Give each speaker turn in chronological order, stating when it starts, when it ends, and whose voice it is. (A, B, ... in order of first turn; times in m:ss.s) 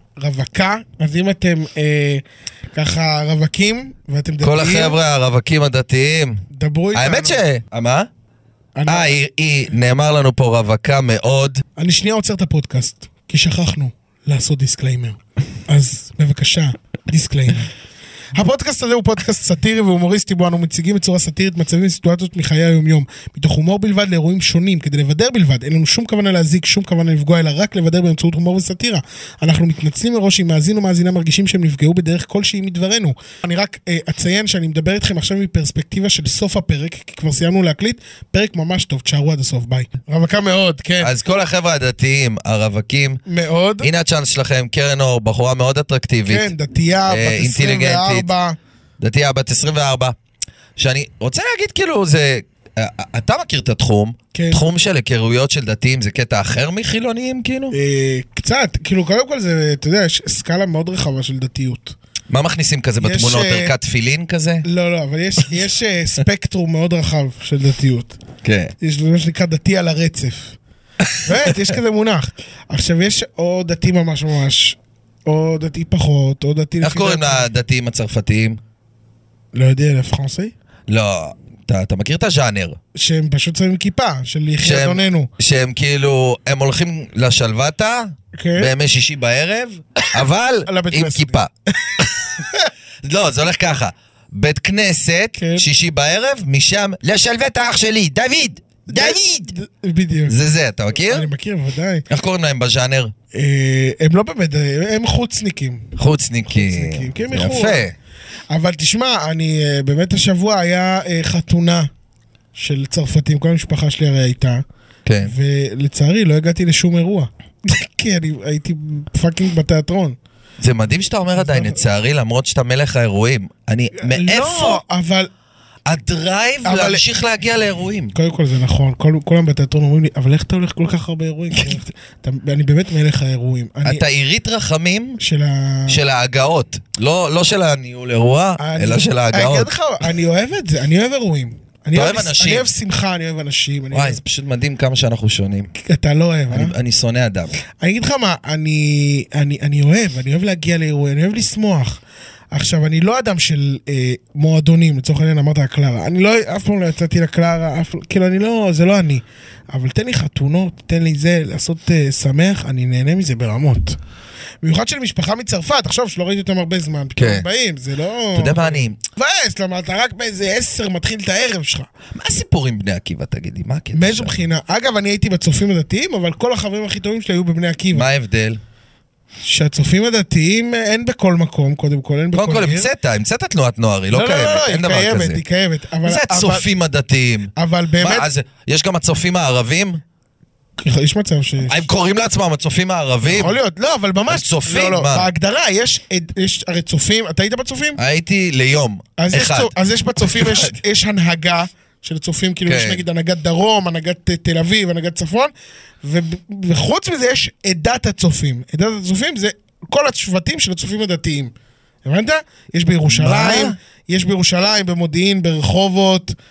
0:00.2-0:02.2 A
0:02.7-0:05.0 A
0:04.4-0:08.1 B
0:06.5-0:07.4 A
0:08.8-0:09.2 A
0:08.9-0:11.6 B
0:11.8-0:17.7 A
0:18.3-0:41.1 A
0:41.0-0:43.2 B
0:43.3-0:43.9 A
0:43.8-0:46.5 B
0:46.3-0:48.6 A
0:47.1-0:48.3 B
0:49.0-0:50.2 B
0:50.8-0:57.8 B
0:54.3-0:54.6 A
0:57.7-1:02.0 A
1:02.3-1:04.6 B
1:03.0-1:03.7 A
1:04.6-1:08.2 A
1:08.4-1:08.7 B
1:08.8-1:10.6 A
1:11.0-1:11.7 B
1:11.2-1:17.5 A
1:16.8-1:18.6 B
1:19.5-1:20.5 A
1:20.9-1:22.8 B
1:23.0-1:25.3 A
1:24.6-1:31.5 B
1:28.3-1:28.7 A
1:30.7-1:32.7 A
1:33.0-1:39.5 B
1:35.4-1:35.7 A
1:38.9-1:40.4 A
1:40.3-1:41.3 B
1:41.1-1:42.1 A
1:42.1-1:43.1 B
1:43.3-1:45.9 A
1:46.0-1:48.0 B
1:46.5-1:47.9 A
1:48.5-1:51.9 A
1:52.6-1:54.6 A
1:55.0-1:55.3 B
1:55.2-2:00.2 A
2:00.6-2:04.8 B
2:01.4-2:01.8 A
2:04.0-2:05.3 A
2:05.9-2:08.2 B
2:06.6-2:07.0 A
2:08.1-2:14.1 A
2:11.5-2:11.8 B
2:13.8-2:15.2 B
2:15.2-2:16.0 A
2:15.9-2:19.7 B
2:18.6-2:24.2 A
2:21.9-2:22.7 B
2:23.9-2:25.7 B
2:25.8-2:26.7 A
2:26.5-2:27.5 B
2:27.8-2:32.0 A
2:32.5-2:44.0 A
2:44.6-2:51.9 A
2:47.2-2:47.5 B
2:48.3-2:49.0 B
2:52.1-2:54.4 B
2:53.9-2:58.1 A
2:57.9-2:58.6 B
2:59.4-3:02.9 A
3:02.3-3:05.4 B
3:04.1-3:06.7 A
3:06.0-3:10.0 B
3:07.6-3:08.3 A
3:10.8-3:11.8 A
3:11.6-3:13.6 B
3:13.2-3:18.0 A
3:14.3-3:15.3 B
3:18.0-3:20.8 B
3:19.2-3:25.5 A
3:22.7-3:23.0 B
3:26.0-3:31.5 A
3:32.0-3:36.4 A
3:33.1-3:33.8 B